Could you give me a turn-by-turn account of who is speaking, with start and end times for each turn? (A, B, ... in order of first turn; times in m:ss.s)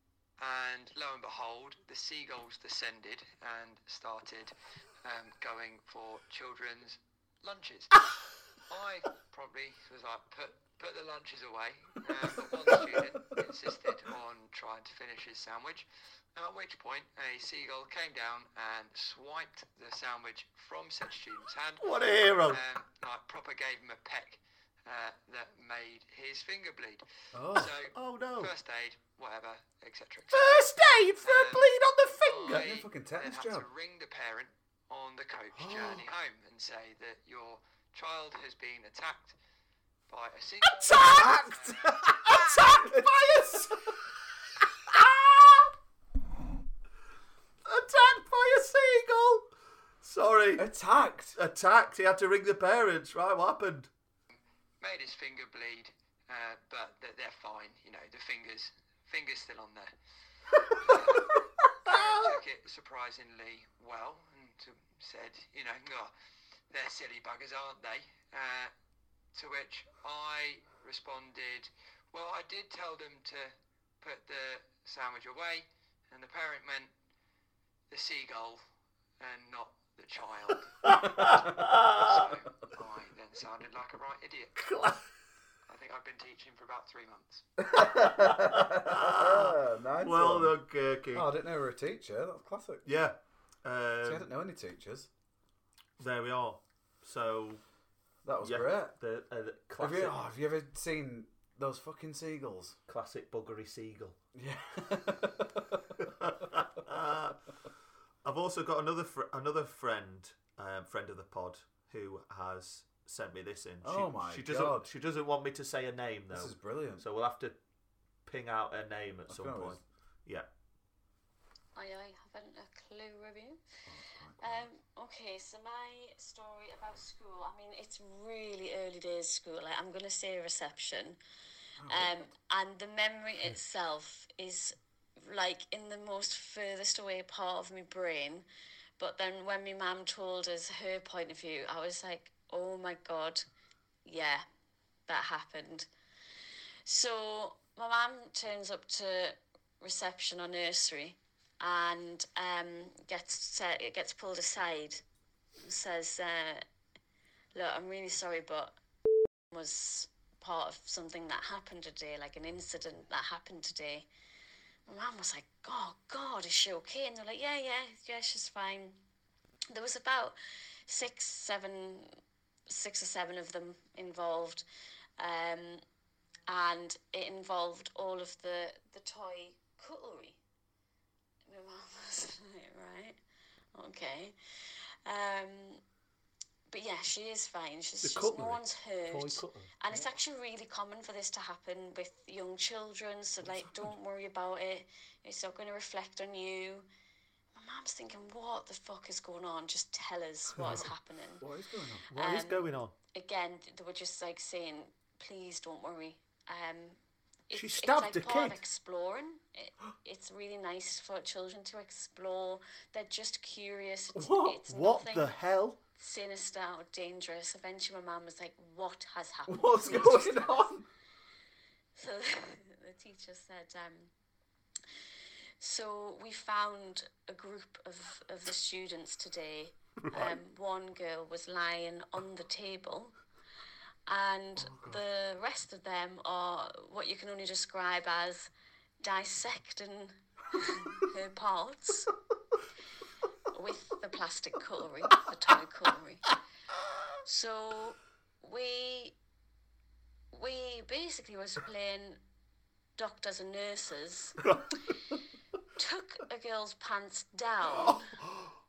0:00.4-0:21.9 A
0:21.8-0:22.6 B
0:22.5-0:30.6 A
0:27.3-0:27.8 C
0:27.9-0:28.5 B
0:30.3-0:32.7 B
0:31.2-0:31.6 A
0:32.2-0:39.4 A
0:32.5-0:33.7 C
0:35.5-0:36.0 C
0:40.1-0:42.0 A
0:40.6-0:41.5 B
0:40.9-0:43.8 C
0:42.0-0:44.0 B
0:44.9-0:45.7 B
0:47.6-0:49.5 B
0:50.0-0:50.7 B
0:50.6-0:51.4 C
0:51.4-0:53.9 B
0:54.8-0:59.9 A
1:00.7-1:06.1 A
1:01.9-1:02.2 B
1:06.7-1:08.7 A
1:09.3-1:16.9 A
1:17.9-1:18.6 A
1:19.2-1:20.8 A
1:20.8-1:22.3 B
1:21.1-1:21.5 C
1:21.8-1:24.6 A
1:24.6-1:25.0 B
1:25.7-1:27.4 A
1:27.6-1:30.6 C
1:28.1-1:31.3 B
1:31.1-1:32.9 C
1:32.9-1:34.3 B
1:34.0-1:35.1 C
1:36.0-1:37.6 B
1:38.2-1:38.9 C
1:38.4-1:40.2 B
1:39.8-1:42.8 C
1:42.9-1:44.2 B
1:44.4-1:46.1 C
1:46.0-1:47.4 B
1:48.2-1:57.6 B
1:53.8-1:54.9 C
1:56.3-1:57.0 C
1:58.3-2:00.5 B
1:59.3-1:59.8 C
2:01.8-2:03.6 D
2:03.9-2:04.7 C
2:04.4-2:11.2 D
2:11.8-2:12.3 C
2:11.9-2:18.5 D
2:19.0-2:23.4 D
2:24.0-2:24.4 D
2:25.1-2:25.9 D
2:26.8-2:35.0 D
2:35.6-2:36.7 D
2:37.6-2:38.8 D
2:39.5-2:44.1 D
2:44.9-2:49.0 D
2:49.7-2:52.2 D
2:52.7-2:54.6 D
2:55.2-2:55.8 D
2:56.5-3:00.4 D
3:01.5-3:03.2 D
3:03.7-3:05.8 D
3:06.7-3:16.9 D
3:08.0-3:09.8 B
3:13.4-3:13.8 C
3:17.5-3:21.5 D
3:21.4-3:22.1 C
3:22.1-3:22.9 B
3:22.2-3:27.0 D
3:27.5-3:35.3 D
3:27.5-3:28.6 B
3:34.2-3:34.6 C
3:34.7-3:35.8 B
3:36.0-3:40.7 D
3:39.5-3:40.9 C
3:42.0-3:44.1 D
3:45.6-3:53.2 D
3:54.1-3:58.5 D
3:54.6-3:55.0 C
3:59.0-4:02.1 D
4:03.5-4:06.4 D
4:07.2-4:09.2 D
4:10.3-4:12.2 D
4:13.0-4:14.4 D
4:15.8-4:18.2 D